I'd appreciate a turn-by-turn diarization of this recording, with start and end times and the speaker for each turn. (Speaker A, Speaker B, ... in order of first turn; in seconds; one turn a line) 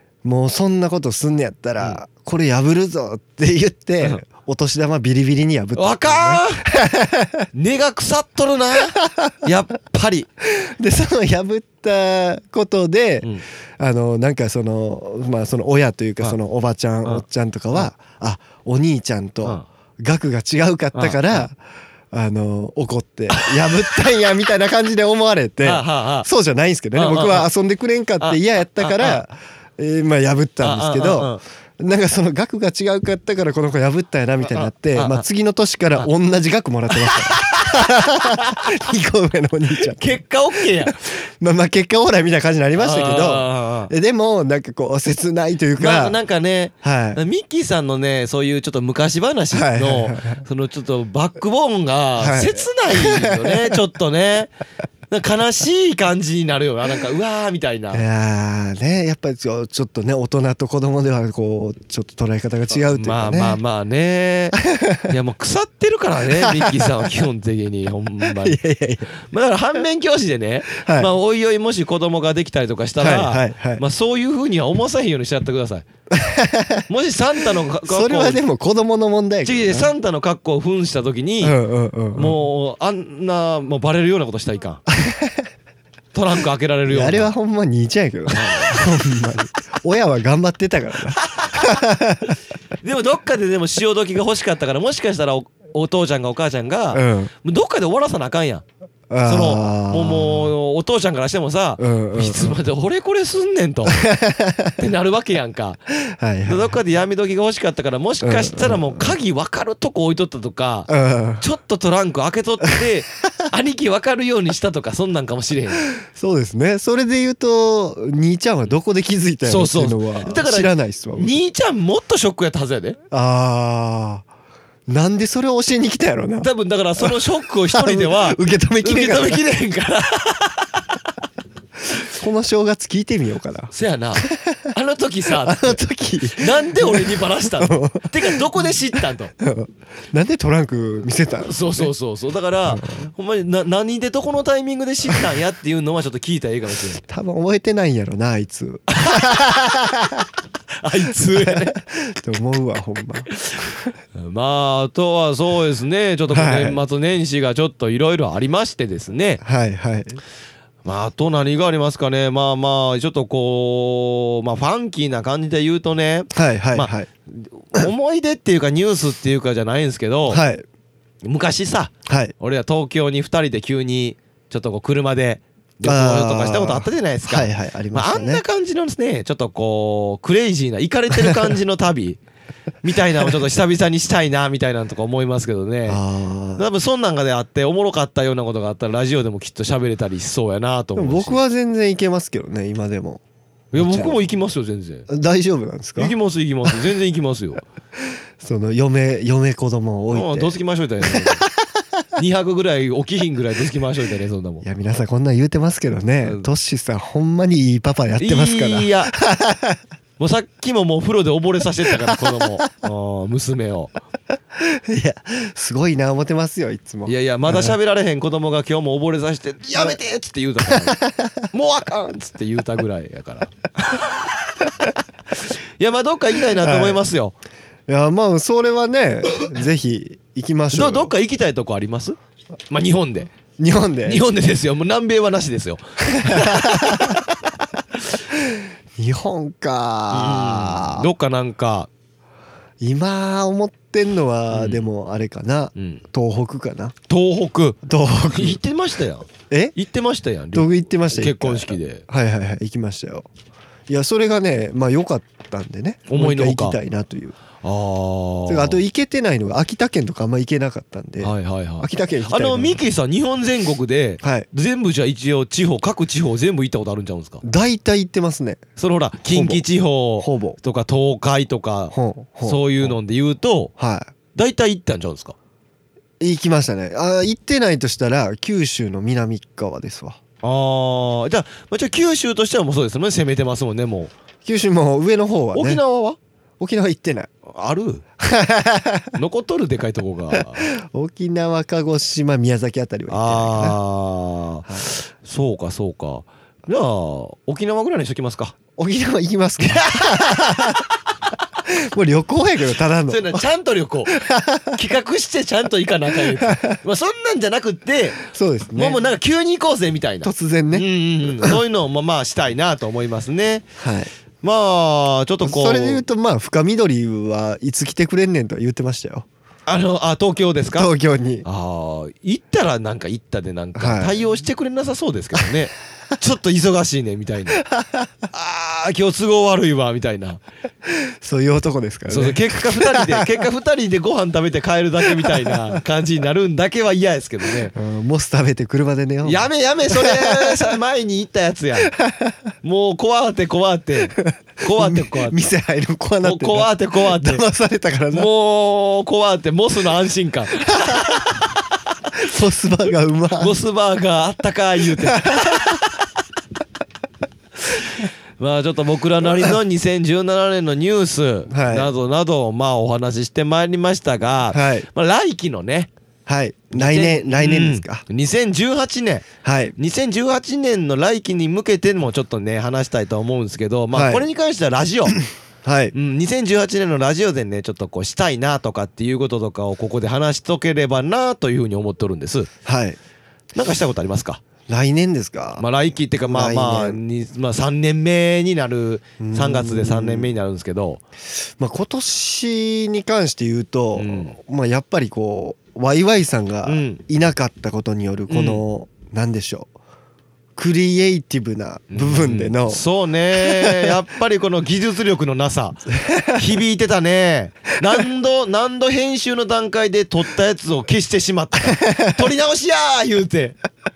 Speaker A: 0.2-7.5
Speaker B: 5.8-6.7
Speaker B: 7.5-10.3
Speaker A: 8.9-9.4
Speaker A: 10.4-21.6
Speaker B: 20.9-21.4
Speaker A: 22.1-46.2
Speaker B: 23.3-24.1
Speaker B: 25.6-26.3
Speaker B: 26.9-27.5
Speaker B: 28.2-29.2
Speaker B: 30.6-31.4
Speaker B: 34.5-35.2
Speaker B: 36.9-38.7
Speaker B: 39.9-41.0
Speaker B: 42.8-43.9
Speaker B: 45.8-54.5
Speaker A: 46.8-47.2
Speaker A: 49.5-50.4
Speaker A: 52.2-53.8
Speaker B: 55.1-58.0
Speaker A: 57.9-63.6
Speaker B: 62.9-68.6
Speaker A: 64.6-65.1
Speaker A: 66.4-67.1
Speaker A: 68.2-69.1
Speaker B: 69.2-75.8
Speaker A: 70.7-71.1
Speaker A: 73.0-73.8
Speaker A: 76.1-76.8
Speaker B: 76.9-78.4
Speaker A: 77.8-79.9
Speaker B: 79.4-81.6
Speaker A: 81.4-82.4
Speaker B: 82.1-84.8
Speaker A: 84.9-85.4
Speaker B: 86.1-87.3
Speaker A: 86.9-92.4
Speaker B: 88.3-88.9
Speaker B: 91.2-91.8
Speaker B: 92.8-98.6
Speaker A: 96.9-97.3
Speaker A: 99.1-100.5
Speaker B: 99.2-104.1
Speaker A: 101.8-102.6
Speaker A: 103.8-104.8
Speaker B: 104.8-105.8
Speaker A: 106.0-106.8
Speaker B: 106.5-115.9
Speaker A: 108.2-109.1
Speaker A: 110.9-111.4
Speaker A: 115.9-121.3
Speaker B: 119.5-123.0
Speaker A: 123.1-124.2
Speaker A: 124.9-129.4
Speaker B: 126.4-131.0
Speaker A: 132.0-134.7
Speaker B: 133.7-139.3
Speaker A: 135.3-138.6
Speaker A: 139.4-141.9
Speaker B: 141.4-147.0
Speaker A: 142.7-143.1
Speaker A: 147.0-150.3
Speaker B: 148.9-149.7
Speaker B: 150.8-151.8
Speaker A: 151.2-153.9
Speaker B: 153.3-159.4
Speaker A: 156.3-156.8
Speaker A: 159.4-160.2
Speaker B: 160.8-170.4
Speaker A: 166.3-167.1
Speaker A: 170.3-170.6
Speaker B: 171.2-182.2
Speaker A: 172.1-172.3
Speaker A: 175.8-178.4
Speaker A: 181.2-181.5
Speaker B: 182.8-186.0
Speaker A: 185.9-186.6
Speaker B: 186.6-191.4
Speaker A: 190.9-193.2
Speaker A: 193.7-194.2
Speaker B: 193.7-195.1
Speaker A: 195.1-196.1
Speaker B: 196.0-197.6
Speaker A: 198.4-201.8
Speaker B: 200.1-201.4
Speaker B: 202.2-204.6
Speaker A: 204.6-209.8
Speaker B: 208.2-209.1
Speaker B: 210.2-213.9
Speaker A: 211.9-212.5
Speaker A: 214.6-217.8
Speaker B: 217.1-221.0
Speaker A: 220.7-221.4
Speaker B: 221.5-224.7
Speaker B: 225.3-227.3
Speaker A: 226.5-227.0
Speaker A: 227.9-231.1
Speaker B: 230.7-232.2
Speaker B: 232.7-233.3
Speaker A: 233.6-234.2
Speaker B: 234.0-237.3
Speaker A: 236.1-237.2
Speaker A: 238.3-241.1
Speaker B: 240.1-241.9
Speaker A: 242.8-246.9
Speaker B: 244.5-244.8
Speaker B: 245.8-246.0
Speaker B: 247.1-247.8
Speaker A: 247.8-248.6
Speaker B: 248.3-252.0
Speaker A: 250.5-253.3
Speaker A: 253.9-257.4
Speaker B: 256.1-256.8
Speaker B: 257.6-258.8
Speaker A: 258.5-262.8
Speaker B: 261.2-267.4
Speaker A: 264.2-264.5
Speaker A: 267.4-268.6
Speaker B: 268.8-273.7
Speaker A: 269.3-269.6
Speaker A: 270.2-270.6
Speaker A: 271.9-272.9
Speaker A: 273.8-274.1
Speaker B: 274.3-275.4
Speaker A: 276.2-280.2
Speaker B: 280.4-284.1
Speaker A: 284.4-285.8
Speaker B: 285.5-286.2
Speaker A: 286.6-287.3
Speaker B: 287.4-288.0
Speaker A: 288.2-289.2
Speaker B: 289.1-290.7
Speaker A: 290.3-293.8
Speaker B: 293.1-298.5
Speaker A: 298.8-300.9
Speaker B: 299.6-300.8
Speaker A: 301.6-303.4
Speaker B: 303.1-304.2
Speaker A: 304.1-304.8
Speaker B: 304.7-308.2
Speaker A: 306.2-306.8
Speaker A: 308.2-309.0
Speaker B: 308.8-313.7
Speaker A: 310.2-311.6
Speaker A: 313.8-314.1
Speaker B: 314.4-316.0
Speaker A: 315.4-319.2
Speaker B: 319.7-320.9
Speaker A: 320.7-321.4
Speaker B: 321.4-327.6
Speaker A: 323.8-324.1
Speaker A: 327.6-328.1
Speaker B: 328.3-330.4
Speaker A: 330.9-333.4
Speaker B: 332.1-337.7
Speaker A: 335.1-335.7
Speaker A: 337.7-340.7
Speaker B: 339.2-341.9
Speaker A: 341.8-342.4
Speaker B: 342.6-345.5
Speaker A: 344.2-348.3
Speaker B: 346.2-347.4
Speaker B: 348.1-351.6
Speaker A: 352.1-353.6
Speaker B: 353.4-356.1
Speaker A: 355.1-355.7
Speaker B: 357.6-365.9
Speaker A: 361.5-361.9
Speaker A: 364.5-364.9
Speaker A: 366.3-368.0
Speaker B: 366.7-375.2
Speaker A: 369.4-369.7
Speaker A: 373.9-374.2
Speaker A: 375.6-375.9
Speaker B: 375.9-382.5
Speaker A: 382.6-383.0
Speaker B: 383.5-384.4
Speaker A: 384.7-385.6
Speaker B: 385.6-391.0
Speaker A: 386.2-387.0
Speaker A: 389.2-390.3
Speaker A: 391.3-399.7
Speaker B: 393.9-394.3
Speaker B: 396.6-397.0
Speaker B: 398.3-398.6
Speaker A: 400.6-402.8
Speaker B: 401.9-413.6
Speaker A: 403.3-403.9
Speaker A: 405.9-406.4
Speaker A: 411.6-412.2